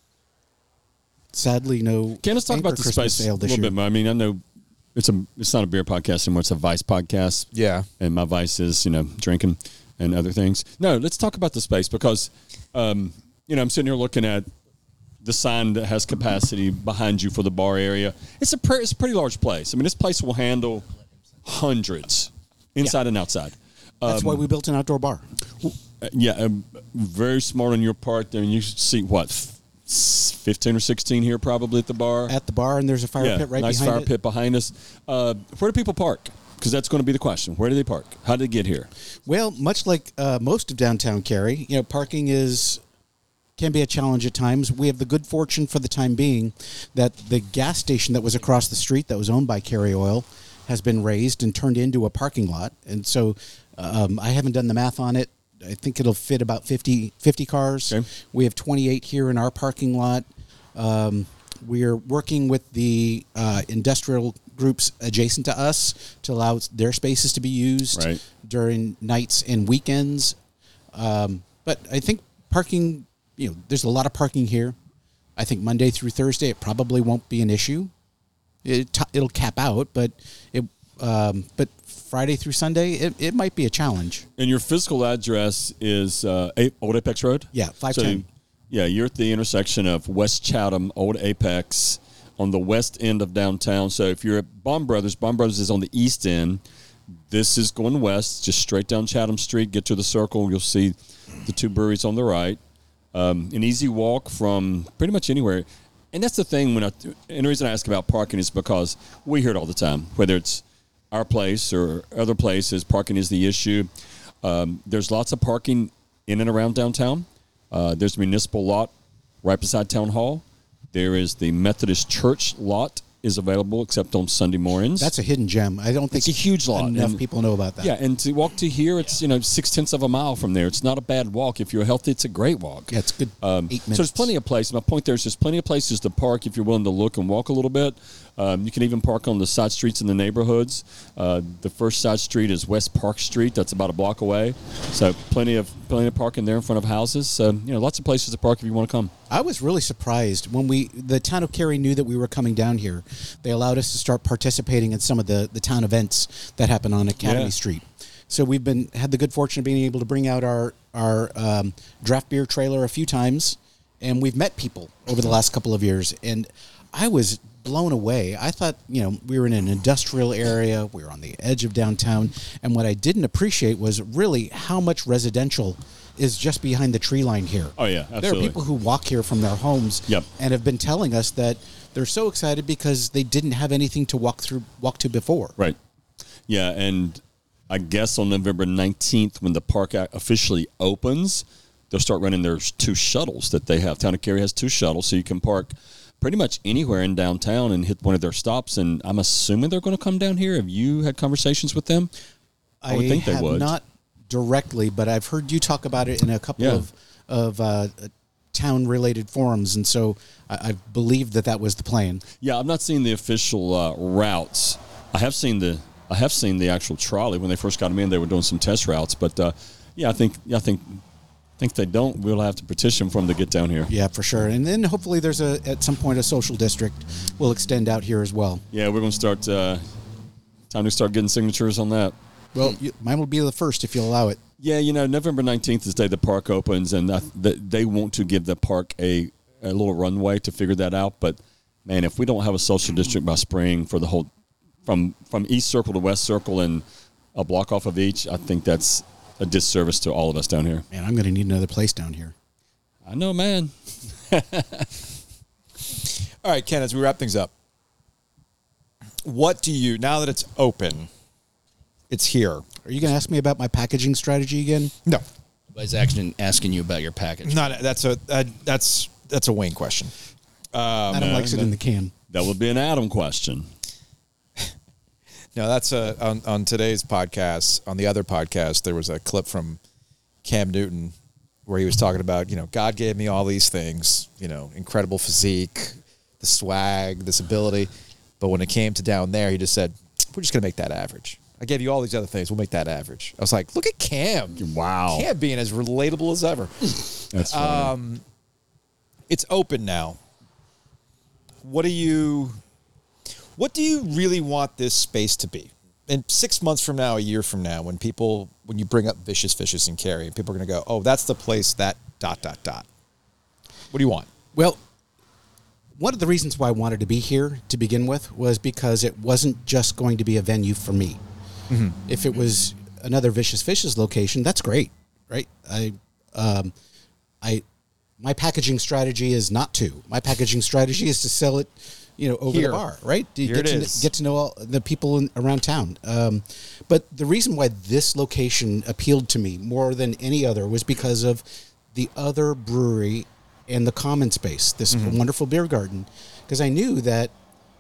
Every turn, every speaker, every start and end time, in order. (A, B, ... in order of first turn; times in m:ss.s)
0:01.3-0:03.7 A
0:02.2-0:04.4 B
0:04.9-0:14.5 B
0:07.5-0:07.9 C
0:15.2-0:20.9 B
0:21.4-0:24.4 B
0:24.0-0:25.2 A
0:25.6-0:32.3 B
0:32.3-0:34.1 A
0:33.2-0:38.9 B
0:39.2-0:42.8 A
0:43.6-1:10.4 A
1:07.9-1:08.2 B
1:10.9-1:14.8 A
1:15.4-1:17.9 A
1:18.6-1:24.2 A
1:24.4-1:36.6 B
1:27.5-1:28.2 A
1:37.1-1:42.6 B
1:43.1-1:53.9 B
1:54.4-1:58.9 B
1:59.4-2:05.1 B
2:05.0-2:07.9 A
2:06.1-2:07.2 B
2:07.8-2:29.1 B
2:12.9-2:14.3 A
2:29.3-3:05.5 A
2:37.2-2:37.5 B
2:57.8-2:58.6 B
3:06.5-3:22.1 B
3:22.8-3:32.2 A
3:22.9-3:23.7 B
3:26.6-3:26.8 B
3:32.4-3:41.0 B
3:41.6-3:43.9 B
3:43.9-3:48.6 A
3:48.7-3:49.8 B
3:50.7-3:52.1 B
3:52.5-3:54.4 A
3:54.6-4:04.3 B
4:04.8-4:06.8 B
4:07.3-4:10.8 B
4:10.9-4:12.3 A
4:13.0-4:13.7 B
4:14.2-4:14.9 B
4:16.4-4:17.5 C
4:19.2-4:21.1 C
4:22.1-4:22.7 C
4:22.8-4:24.9 A
4:25.7-4:27.8 D
4:27.4-4:30.1 C
4:30.7-4:31.5 C
4:31.1-4:32.1 A
4:31.1-4:31.7 B
4:32.3-4:33.7 B
4:35.5-4:39.8 C
4:40.4-4:41.1 C
4:41.6-4:58.2 C
4:54.6-4:55.3 B
4:57.3-4:57.9 B
4:59.3-5:00.2 C
5:01.6-5:02.6 C
5:03.6-5:12.8 C
5:13.9-5:14.3 C
5:14.5-5:14.8 A
5:16.0-5:21.2 A
5:21.7-5:22.0 C
5:22.0-5:26.7 A
5:28.2-5:47.3 A
5:32.5-5:32.8 C
5:33.4-5:34.1 C
5:44.9-5:45.2 C